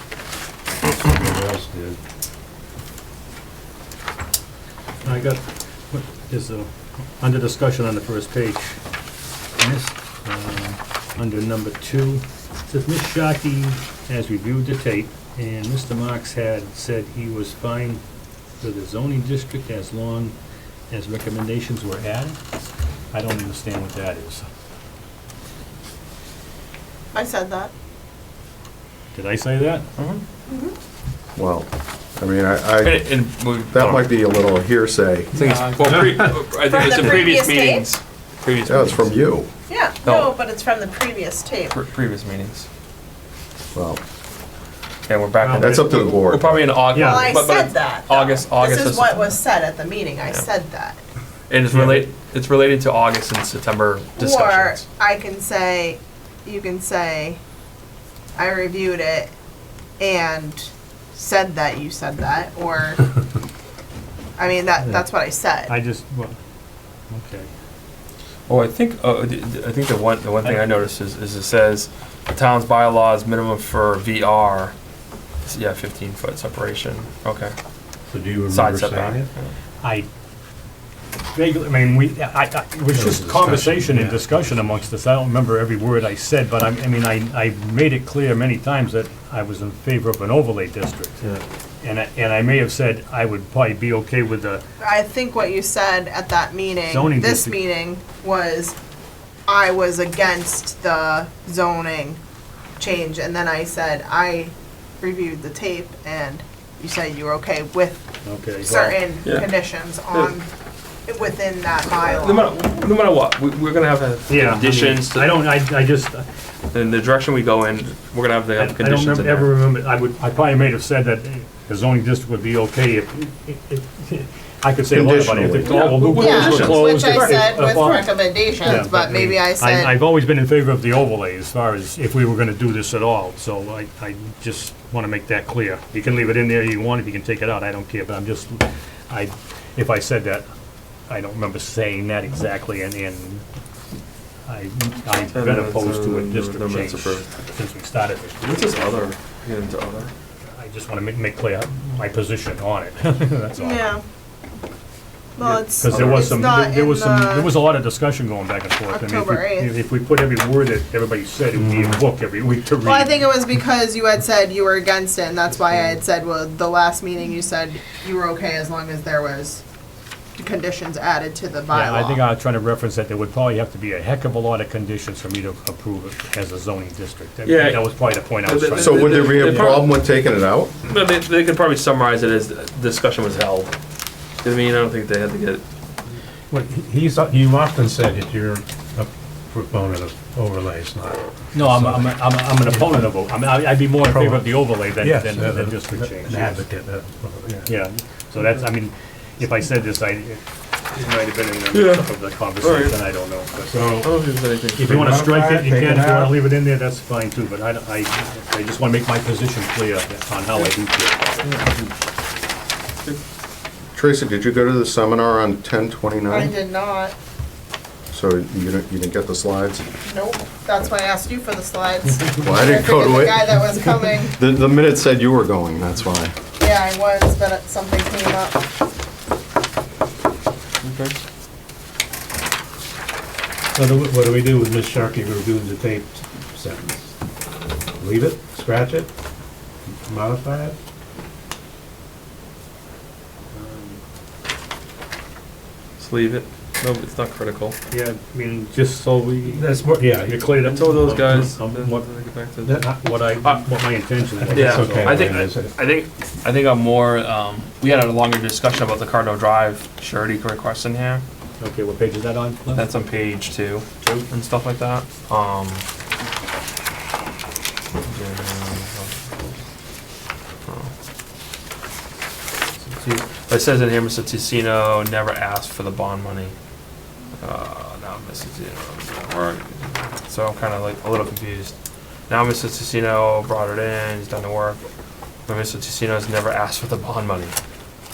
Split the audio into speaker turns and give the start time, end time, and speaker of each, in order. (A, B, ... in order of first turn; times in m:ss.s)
0:00.8-0:02.0 A
0:05.0-0:08.8 B
0:09.6-0:18.0 B
0:18.6-0:20.4 B
0:20.9-0:22.4 B
0:23.1-0:24.5 B
0:27.1-0:27.7 C
0:29.1-0:29.9 B
0:30.0-0:30.2 D
0:30.5-0:30.8 C
0:31.4-0:33.1 E
0:32.8-0:34.2 D
0:33.7-0:35.4 E
0:35.4-0:39.2 D
0:35.4-0:36.0 B
0:36.6-0:37.9 C
0:38.6-0:39.5 E
0:39.7-0:41.8 C
0:40.0-0:40.4 D
0:41.7-0:42.7 D
0:43.7-0:44.0 E
0:45.1-0:49.4 D
0:45.4-0:45.8 B
0:45.6-0:46.7 E
0:46.9-0:47.4 B
0:46.9-0:51.0 C
0:51.5-0:54.8 D
0:51.7-0:52.1 B
0:54.2-0:57.4 C
0:58.4-0:59.3 C
1:00.0-1:03.2 C
1:04.4-1:05.7 C
1:05.7-1:06.4 B
1:07.1-1:07.5 B
1:08.5-1:14.7 D
1:10.4-1:10.7 B
1:15.4-1:17.5 D
1:18.1-1:19.3 A
1:18.5-1:19.5 D
1:19.8-1:20.1 B
1:21.3-1:34.6 B
1:22.9-1:24.9 A
1:34.8-1:38.8 C
1:36.9-1:37.6 B
1:39.5-1:42.2 C
1:42.8-1:48.0 C
1:48.2-1:49.0 B
1:48.6-1:50.5 C
1:49.2-1:49.5 D
1:51.1-1:52.5 C
1:51.9-1:55.3 D
1:54.3-1:56.2 B
1:56.7-1:59.5 D
1:58.6-2:20.5 B
2:04.9-2:05.7 E
2:05.6-2:07.5 D
2:06.0-2:10.0 C
2:21.1-2:23.4 B
2:24.5-2:28.7 B
2:25.3-2:27.2 D
2:28.4-2:30.1 D
2:30.5-2:33.9 B
2:33.5-2:34.0 C
2:35.4-2:37.5 C
2:35.4-2:36.4 D
2:35.7-2:43.3 B
2:38.9-2:39.7 C
2:41.6-2:42.0 A
2:42.8-2:49.6 C
2:50.4-2:52.2 C
2:51.7-2:59.3 B
2:57.4-3:00.0 D
2:58.8-3:00.8 E
2:59.4-2:59.8 A
3:00.9-3:03.7 D
3:04.4-3:05.6 D
3:06.5-3:13.1 A
3:11.5-3:16.6 B
3:14.0-3:17.7 A
3:17.7-3:23.9 B
3:21.7-3:23.0 D
3:23.6-3:24.2 A
3:24.0-3:25.2 D
3:24.8-3:31.3 B
3:24.8-3:26.5 A
3:31.4-3:32.0 D
3:34.0-3:36.5 E
3:36.3-3:37.2 C
3:38.1-3:39.9 E
3:40.0-3:44.4 C
3:42.4-3:43.5 E
3:44.4-3:46.5 E
3:46.5-3:48.7 C
3:50.8-3:51.2 D
3:53.8-3:57.2 A
3:58.0-3:59.1 A
3:59.9-4:00.8 A
4:03.5-4:04.0 B
4:06.0-4:07.8 D
4:07.9-4:12.1 B
4:09.4-4:10.5 A
4:10.6-4:12.9 D
4:12.6-4:15.5 B
4:14.4-4:15.7 A
4:14.5-4:21.2 D
4:21.6-4:22.9 B
4:22.7-4:25.8 D
4:24.0-4:24.3 B
4:28.1-4:29.4 D
4:33.1-4:36.5 D
4:37.4-4:41.7 D
4:42.3-4:44.8 D
4:45.5-4:47.6 D